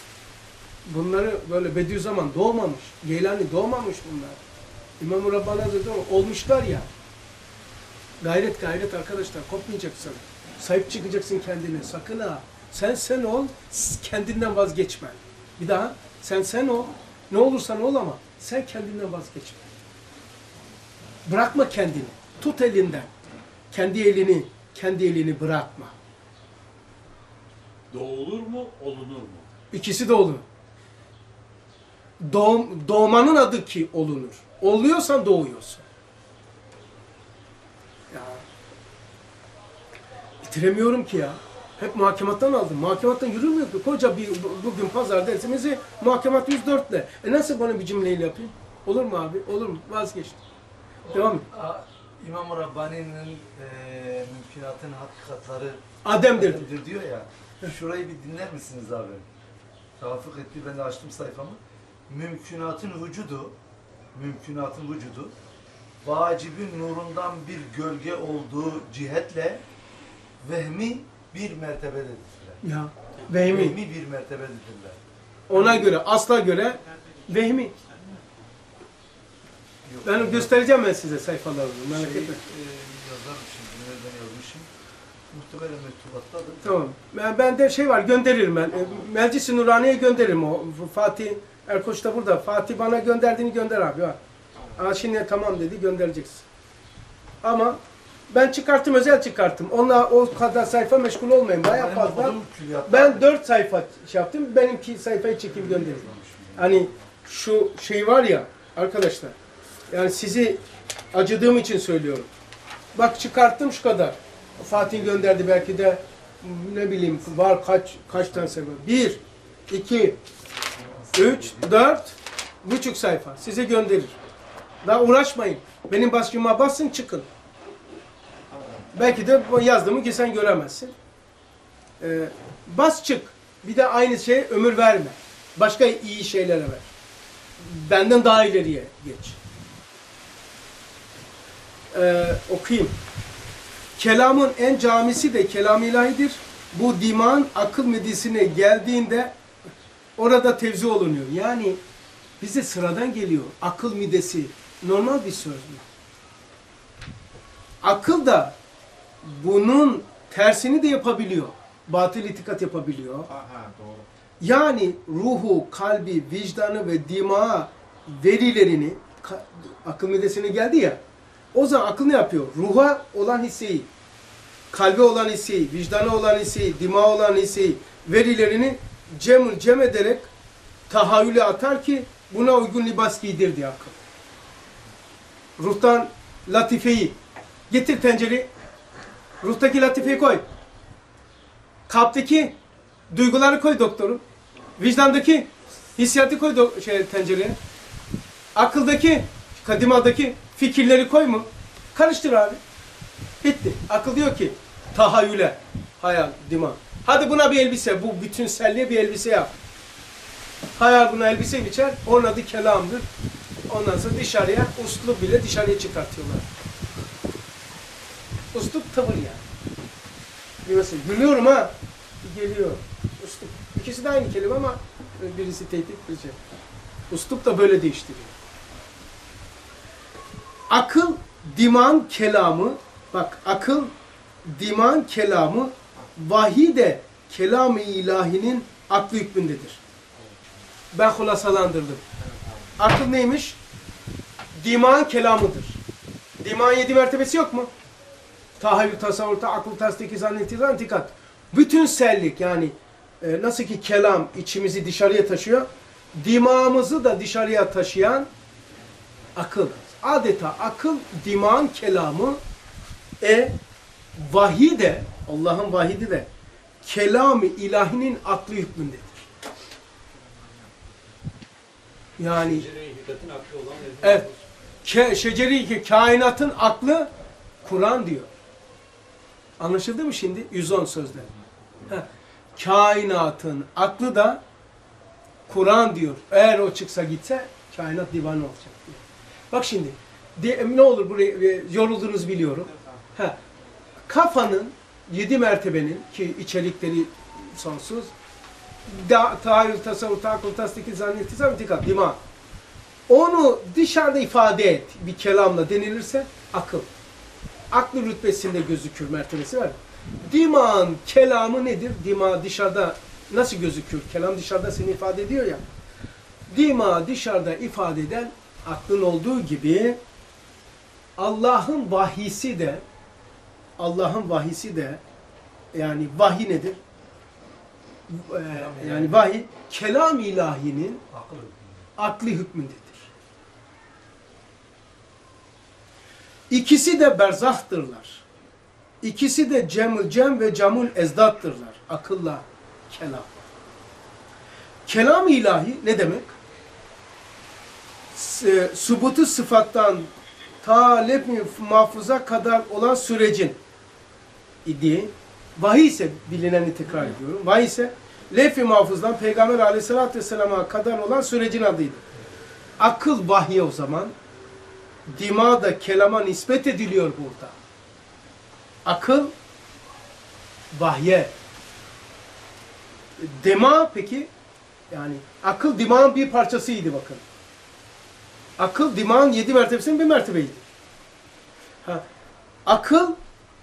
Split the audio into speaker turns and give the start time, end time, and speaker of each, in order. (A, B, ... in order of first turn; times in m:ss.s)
0:00.9-0:04.4 A
0:05.0-0:06.9 A
0:08.2-0:19.6 A
0:21.3-0:23.1 A
0:23.7-0:26.0 A
0:27.9-0:29.5 B
0:29.7-0:30.4 A
0:32.2-0:35.8 A
0:38.1-0:38.4 A
0:40.4-0:50.4 A
0:51.0-0:59.3 C
0:51.1-0:51.4 A
0:56.0-0:56.7 A
1:00.0-1:03.6 C
1:04.2-1:05.3 C
1:06.0-1:09.6 C
1:10.4-1:12.6 C
1:12.6-1:13.8 A
1:13.4-1:15.0 C
1:15.5-1:17.7 A
1:15.6-1:15.9 B
1:19.8-1:20.5 C
1:20.0-1:22.4 A
1:21.9-1:24.7 C
1:25.3-1:26.9 C
1:26.6-1:34.2 A
1:34.8-1:36.4 A
1:37.4-1:49.4 A
1:41.6-1:43.3 C
1:45.5-1:46.9 C
1:49.9-1:50.6 A
1:51.1-1:52.3 A
1:53.0-2:00.2 A
2:00.8-2:01.8 C
2:01.1-2:04.2 A
2:04.8-2:07.3 A
2:08.9-2:10.9 A
2:12.0-2:16.9 A
2:17.6-2:19.4 A
2:21.9-2:22.9 A
2:24.0-2:29.4 A
2:30.2-2:31.8 A
2:32.4-2:35.8 A
2:37.8-2:38.6 A
2:39.2-2:43.3 A
2:44.4-2:51.0 A
2:51.5-2:53.9 A
2:54.7-3:00.3 A
3:00.9-3:04.0 A
3:05.6-3:07.2 A
3:07.7-3:08.5 A
3:09.4-3:10.4 A
3:11.9-3:12.6 A
3:13.1-3:14.2 A
3:14.8-3:17.6 A
3:18.6-3:22.6 A
3:23.4-3:29.5 A
3:30.8-3:33.1 A
3:33.7-3:36.5 A
3:38.5-3:39.4 A
3:40.6-3:46.4 A
3:47.1-3:48.3 A
3:50.7-3:53.9 A
3:54.4-3:59.8 A
4:00.9-4:02.0 A
4:02.8-4:03.6 A
4:04.6-4:05.8 A
4:06.4-4:07.7 A
4:08.6-4:18.3 A
4:19.4-4:22.4 A
4:23.2-4:23.6 A
4:24.2-4:26.3 A
4:26.8-4:29.2 A
4:32.2-4:32.7 A
4:32.3-4:34.4 B
4:34.0-4:34.3 A
4:34.8-4:37.1 A
4:37.6-4:38.3 A
4:39.6-4:41.3 A
4:42.6-4:44.4 A
4:45.5-4:53.4 A
4:52.7-4:53.0 B
4:54.1-4:58.1 A
4:58.9-5:02.2 A
5:03.1-5:06.9 A
5:07.7-5:15.7 A
5:16.5-5:20.0 A
5:21.2-5:22.8 A
5:23.8-5:25.0 A
5:25.7-5:26.8 A
5:28.1-5:31.0 A
5:28.5-5:29.2 C
5:31.1-5:31.9 C
5:32.0-5:33.1 A
5:36.5-5:38.2 A
5:39.0-5:43.4 A
5:44.9-5:46.4 A
5:48.1-5:50.1 A
5:50.6-5:53.6 A
5:54.6-6:02.0 A
6:02.8-6:04.1 A
6:05.1-6:07.6 A
6:08.8-6:09.3 A
6:10.7-6:11.3 A
6:13.2-6:14.3 A
6:14.9-6:17.2 A
6:18.6-6:20.6 A
6:22.7-6:23.2 A